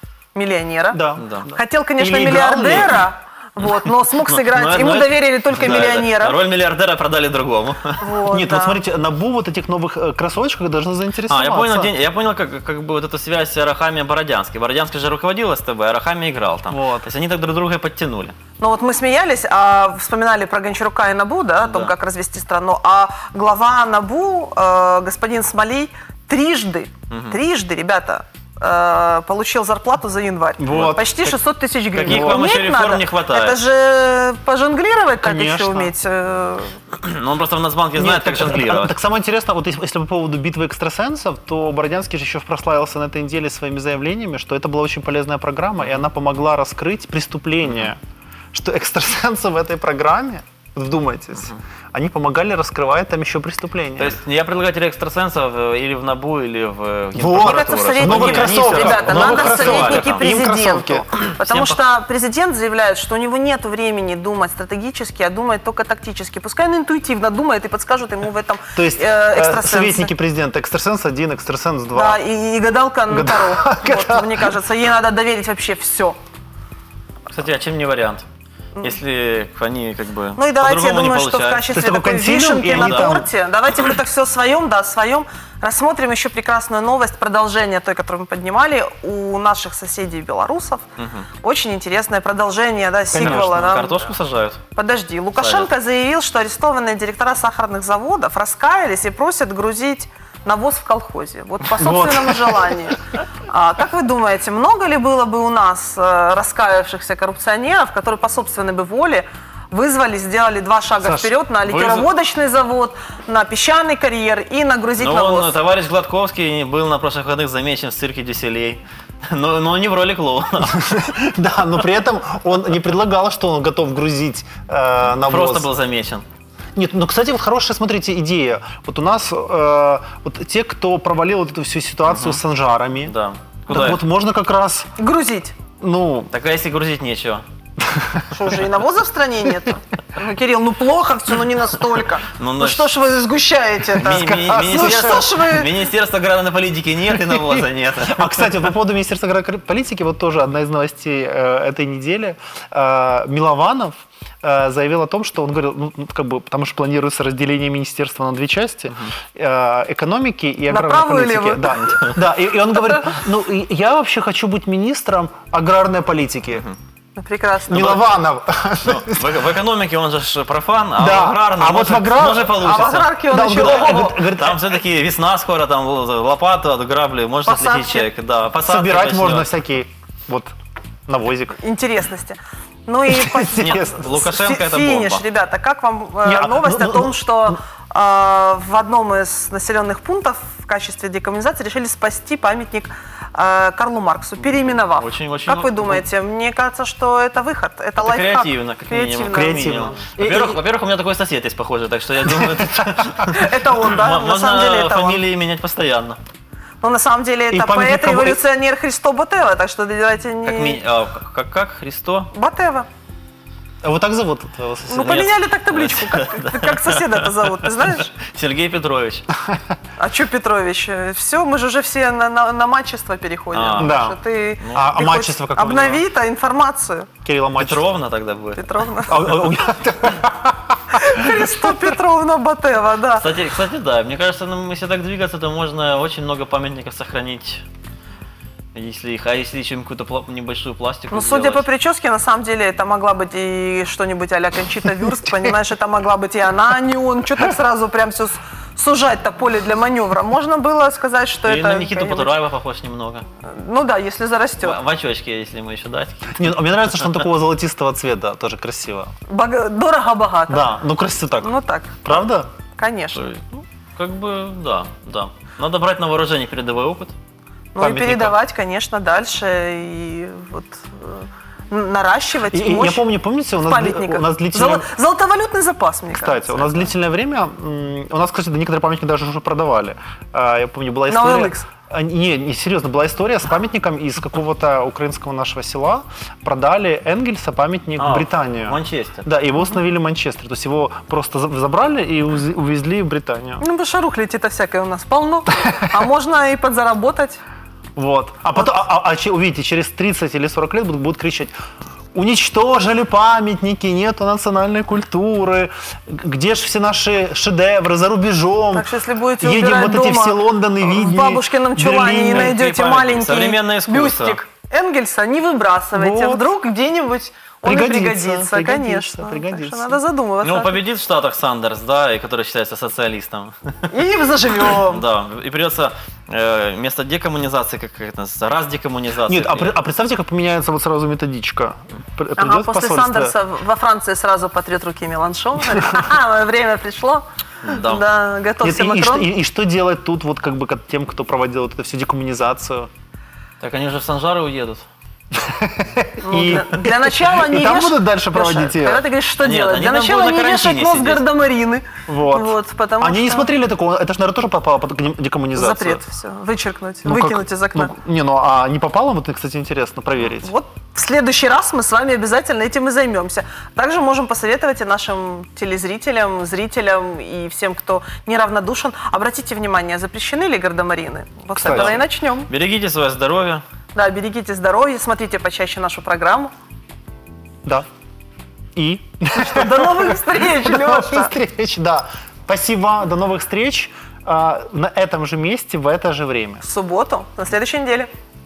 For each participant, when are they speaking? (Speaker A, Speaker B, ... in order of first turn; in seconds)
Speaker A: 0.3-1.0, 1.5-6.4, 8.0-8.8, 18.6-36.8, 57.4-70.1, 71.9-76.2, 80.4-90.9, 91.4-94.0, 94.7-115.5, 135.0-135.6, 138.3-145.7, 160.7-162.0, 167.2-168.0, 172.5-174.2, 177.5-178.1, 181.6-199.8, 203.3-205.2, 206.8-210.8, 212.3-212.9, 214.9-218.1, 220.0-227.1, 228.6-229.3, 230.9-233.3, 241.1-252.3, 253.4-254.8, 259.3-260.8, 261.4-262.0, 262.8-263.3, 267.8-273.1, 273.6-276.9, 281.1-281.7, 293.6-297.4, 308.7-320.8, 323.9-325.0, 332.4-339.3, 346.2-353.5, 355.5-357.9, 360.4-372.5, 373.9-376.5, 379.4-381.3, 386.6-388.1
Speaker B: 0.9-3.0, 8.3-11.9, 16.7-17.1, 30.6-31.2, 32.1-32.5, 35.2-35.9, 38.0-48.0, 48.5-54.2, 57.1-61.1, 68.8-72.2, 73.1-74.6, 81.7-83.3, 93.1-93.5, 101.8-102.9, 111.0-111.4, 120.7-125.7, 126.8-133.2, 133.7-134.9, 135.8-136.3, 137.8-138.3, 144.0-145.3, 147.3-166.7, 167.7-169.4, 171.0-174.7, 178.6-180.5, 181.1-181.6, 183.1-184.1, 186.2-187.6, 199.3-200.6, 202.3-203.2, 207.5-208.4, 213.8-215.3, 223.8-224.2, 224.7-226.0, 227.2-227.9, 229.1-231.4, 256.3-259.1, 260.5-262.5, 272.5-274.9, 276.1-293.6, 298.0-301.5, 302.1-308.9, 309.4-312.6, 315.9-316.5, 317.6-320.0, 329.3-333.4, 338.6-342.9, 345.3-349.1, 352.1-356.0, 357.1-360.5, 371.6-372.0, 378.8-386.6
Speaker C: 1.2-1.5, 4.2-8.0, 11.3-18.4, 21.6-21.9, 27.1-27.4, 30.7-31.4, 31.9-33.6, 36.9-39.0, 54.0-60.3, 61.2-61.8, 77.3-78.3, 78.8-81.7, 82.7-83.1, 91.0-91.3, 93.1-94.6, 95.4-95.7, 111.7-112.1, 115.0-121.2, 125.2-126.2, 132.1-132.4, 133.1-134.0, 136.3-137.4, 142.4-142.9, 144.0-148.6, 161.8-162.2, 167.7-168.0, 168.8-179.5, 183.6-185.2, 194.7-196.0, 198.0-206.2, 210.4-212.3, 215.0-219.3, 223.5-224.0, 224.6-225.0, 227.6-228.7, 233.2-237.6, 238.7-241.7, 251.5-253.3, 254.6-256.6, 263.2-267.1, 267.8-268.4, 288.0-289.3, 312.3-314.4, 320.4-323.9, 324.8-329.8, 337.6-338.0, 343.6-344.9, 349.4-351.2, 371.6-373.6